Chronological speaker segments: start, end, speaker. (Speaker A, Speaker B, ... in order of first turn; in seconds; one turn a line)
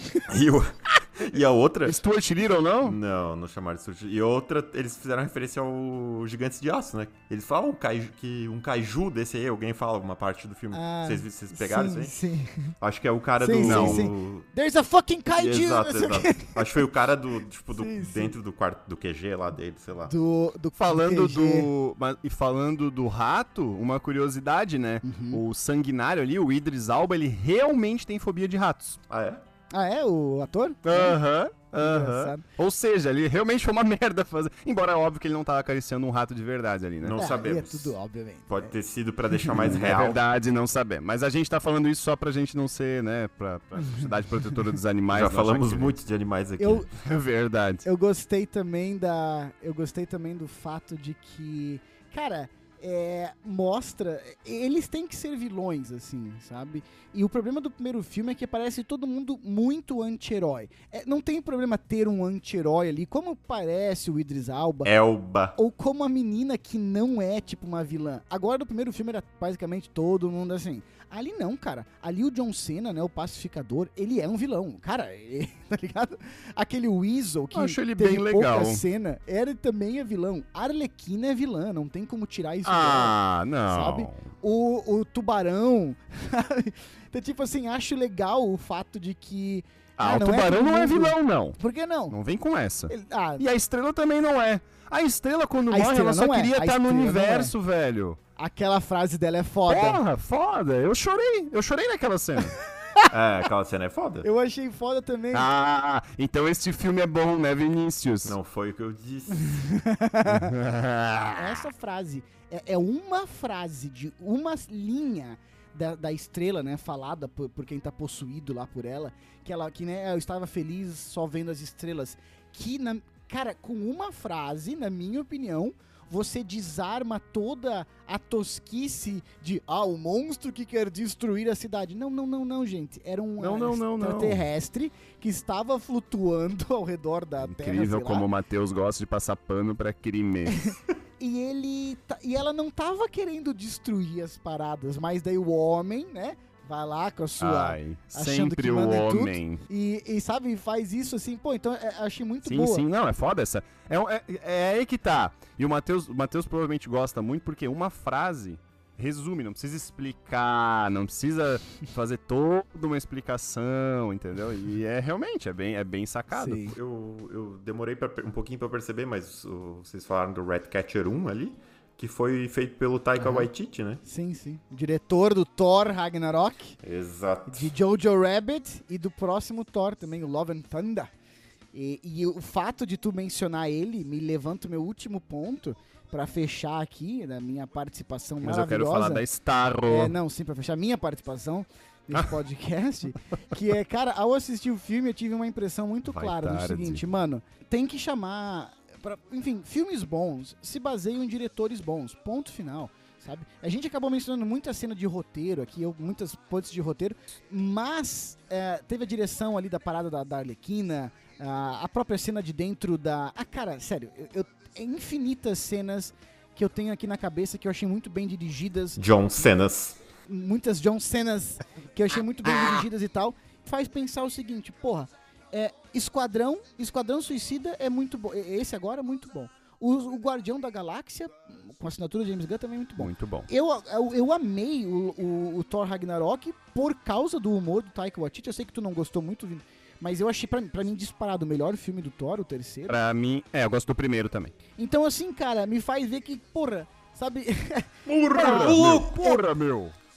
Speaker A: 0.3-2.0
Speaker B: 1.9-3.0
Speaker A: 2.8-12.2
Speaker C: 10.7-12.7
Speaker A: 12.8-14.5
Speaker C: 13.4-16.8
Speaker B: 13.6-14.1
Speaker A: 15.3-20.1
Speaker C: 17.7-18.3
Speaker C: 20.1-21.7
Speaker B: 20.8-29.0
Speaker C: 25.0-25.4
Speaker A: 29.1-29.4
Speaker C: 29.7-31.2
Speaker B: 30.8-37.2
Speaker C: 31.8-32.5
Speaker A: 37.0-38.0
Speaker C: 37.2-38.8
Speaker A: 38.5-40.2
Speaker B: 39.5-46.0
Speaker A: 45.1-46.9
Speaker C: 46.6-46.9
Speaker B: 47.0-47.8
Speaker C: 47.8-64.9
Speaker A: 64.8-65.5
Speaker C: 65.6-83.2
Speaker B: 77.5-78.8
Speaker B: 82.7-84.2
Speaker C: 83.7-92.2
Speaker B: 90.0-91.6
Speaker B: 92.1-98.2
Speaker C: 92.9-93.4
Speaker C: 95.7-97.5
Speaker C: 98.4-100.0
Speaker B: 99.7-102.6
Speaker A: 103.1-104.3
Speaker C: 104.2-105.5
Speaker B: 105.3-108.4
Speaker A: 108.3-109.6
Speaker C: 109.4-110.5
Speaker B: 110.2-111.7
Speaker C: 111.3-138.3
Speaker B: 133.4-134.4
Speaker B: 137.4-140.7
Speaker C: 140.5-152.8
Speaker B: 147.4-149.7
Speaker B: 152.4-166.8
Speaker C: 166.3-166.8
Speaker A: 166.8-174.0
Speaker C: 173.2-173.5
Speaker C: 174.0-176.8
Speaker A: 176.8-177.7
Speaker C: 177.5-181.1
Speaker C: 181.7-189.2
Speaker B: 188.4-190.2
Speaker C: 189.9-219.0
Speaker B: 196.1-197.0
Speaker A: 219.0-220.0
Speaker C: 220.3-243.0
Speaker B: 233.0-233.5
Speaker B: 242.9-244.6
Speaker C: 244.8-249.4
Speaker A: 248.1-249.1
Speaker B: 248.3-250.0